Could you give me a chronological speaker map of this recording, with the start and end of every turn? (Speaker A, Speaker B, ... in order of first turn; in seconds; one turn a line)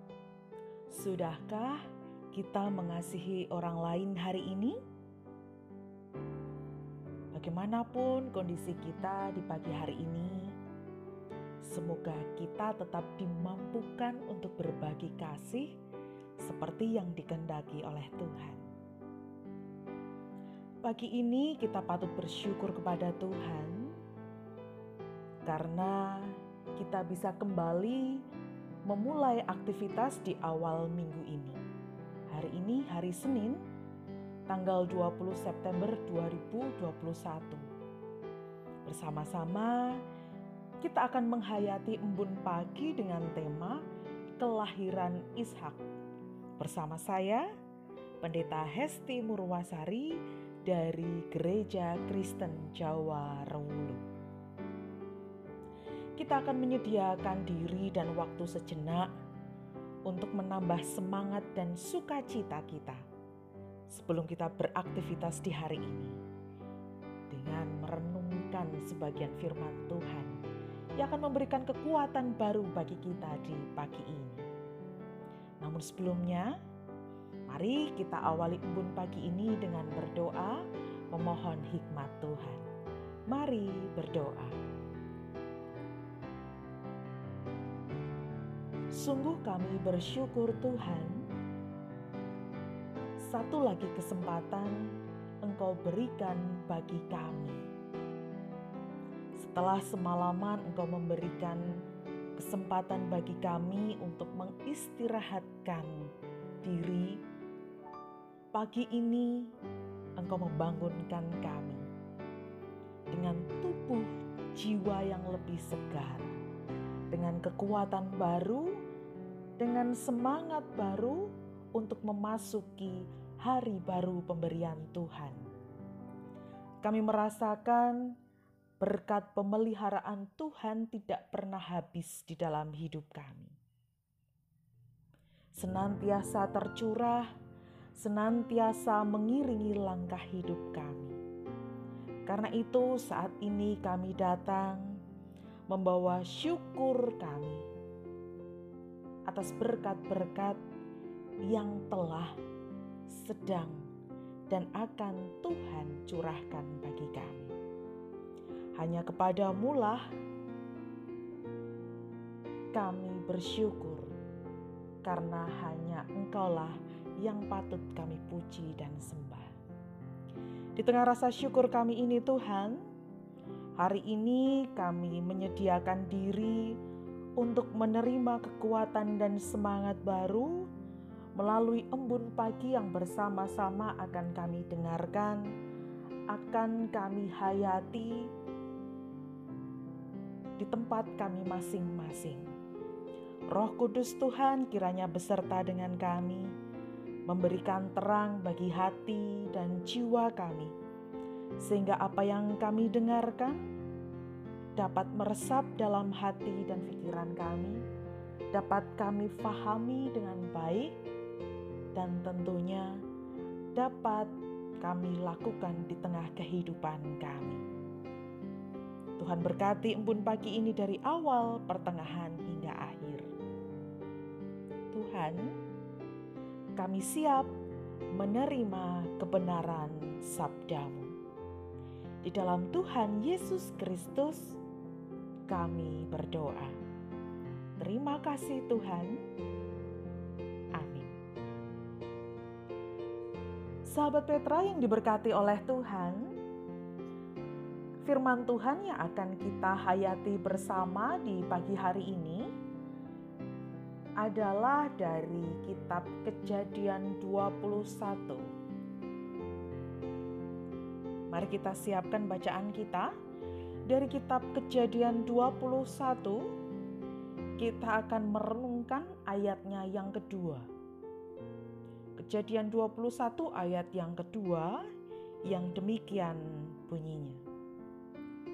Speaker A: 0.9-1.8
Speaker A: 2.3-4.8
Speaker A: 7.3-10.5
Speaker A: 11.6-15.7
Speaker A: 16.4-18.6
Speaker A: 20.8-23.9
Speaker A: 25.4-28.2
Speaker A: 28.9-31.6
Speaker A: 32.3-33.6
Speaker A: 34.5-37.7
Speaker A: 38.9-40.0
Speaker A: 40.8-43.8
Speaker A: 44.4-45.8
Speaker A: 46.6-47.4
Speaker A: 48.2-54.0
Speaker A: 56.2-59.1
Speaker A: 60.1-63.0
Speaker A: 63.9-66.2
Speaker A: 67.3-70.4
Speaker A: 71.0-74.4
Speaker A: 75.6-76.5
Speaker A: 77.5-80.6
Speaker A: 81.1-82.7
Speaker A: 83.3-84.6
Speaker A: 88.9-91.2
Speaker A: 93.2-94.8
Speaker A: 95.4-97.6
Speaker A: 99.4-101.7
Speaker A: 102.4-106.1
Speaker A: 106.6-107.2
Speaker A: 108.5-109.5
Speaker A: 110.2-111.8
Speaker A: 113.1-116.3
Speaker A: 117.1-118.8
Speaker A: 119.6-125.5
Speaker A: 126.8-128.0
Speaker A: 128.8-133.5
Speaker A: 135.6-137.3
Speaker A: 138.0-141.2
Speaker A: 142.3-144.8
Speaker A: 145.7-147.6
Speaker A: 149.3-150.6
Speaker A: 151.5-152.3
Speaker A: 153.1-153.9
Speaker A: 154.5-157.5
Speaker A: 158.8-160.0
Speaker A: 162.7-164.1
Speaker A: 165.0-169.5
Speaker A: 170.8-172.8
Speaker A: 173.8-176.8
Speaker A: 177.4-180.7
Speaker A: 181.3-185.4
Speaker A: 186.3-188.3
Speaker A: 190.6-192.5
Speaker A: 193.5-196.5
Speaker A: 197.3-200.7
Speaker A: 201.6-203.6
Speaker A: 204.8-207.8
Speaker A: 208.5-210.9
Speaker A: 211.9-212.9
Speaker A: 213.7-217.6
Speaker A: 219.2-223.3
Speaker A: 224.9-225.5
Speaker A: 226.8-227.5
Speaker A: 228.1-231.1
Speaker A: 232.2-234.6
Speaker A: 235.5-236.8
Speaker A: 237.8-239.2
Speaker A: 240.8-241.2
Speaker A: 243.9-246.3
Speaker A: 248.0-252.4
Speaker A: 254.2-258.4
Speaker A: 261.3-263.1
Speaker A: 263.9-266.4
Speaker A: 267.6-270.7
Speaker A: 272.2-274.8
Speaker A: 275.5-277.4